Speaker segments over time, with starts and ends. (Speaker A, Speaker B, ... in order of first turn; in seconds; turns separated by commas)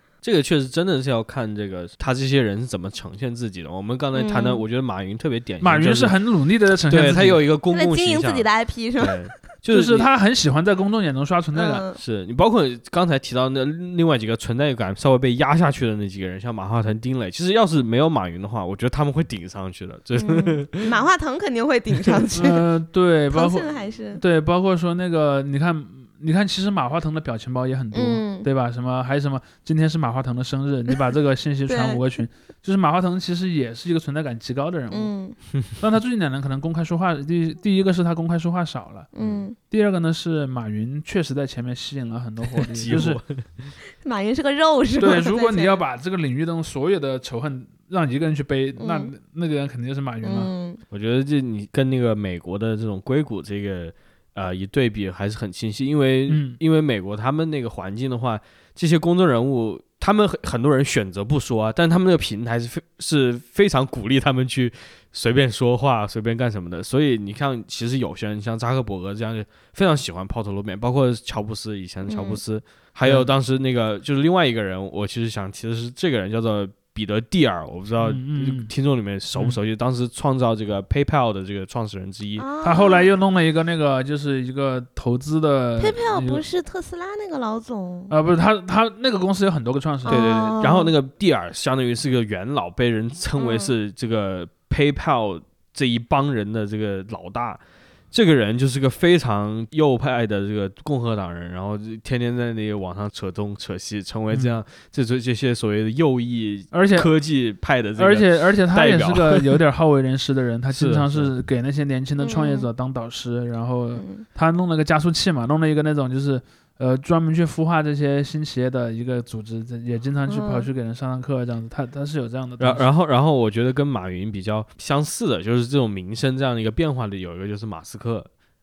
Speaker A: 0.2-6.2, Speaker B: 4.1-4.6, Speaker C: 5.6-7.4, Speaker A: 6.9-10.1, Speaker B: 7.7-9.3, Speaker C: 9.7-11.8, Speaker B: 11.5-12.0, Speaker A: 11.9-21.0, Speaker B: 20.2-22.7, Speaker C: 22.3-35.1, Speaker B: 23.3-24.2, Speaker B: 27.9-28.5, Speaker B: 31.7-32.0, Speaker B: 34.9-35.4, Speaker C: 35.8-39.1, Speaker B: 39.1-39.6, Speaker A: 39.2-39.5, Speaker C: 39.7-43.2, Speaker A: 42.5-43.8, Speaker B: 44.0-45.8, Speaker C: 45.0-50.5, Speaker B: 48.8-49.1, Speaker B: 50.2-50.8, Speaker A: 50.9-82.5, Speaker C: 56.3-56.6, Speaker B: 72.1-72.4, Speaker C: 73.0-73.3, Speaker C: 78.0-78.7, Speaker B: 82.4-83.1, Speaker C: 82.6-86.4, Speaker B: 85.8-88.1, Speaker C: 88.1-90.6, Speaker A: 90.0-97.6, Speaker B: 90.1-90.9, Speaker B: 93.4-93.7, Speaker A: 98.1-109.6, Speaker C: 104.3-104.6, Speaker C: 106.7-107.1, Speaker C: 108.0-122.9, Speaker A: 110.7-111.3, Speaker B: 112.2-112.7, Speaker B: 114.0-114.3, Speaker B: 120.3-120.7, Speaker A: 122.6-128.3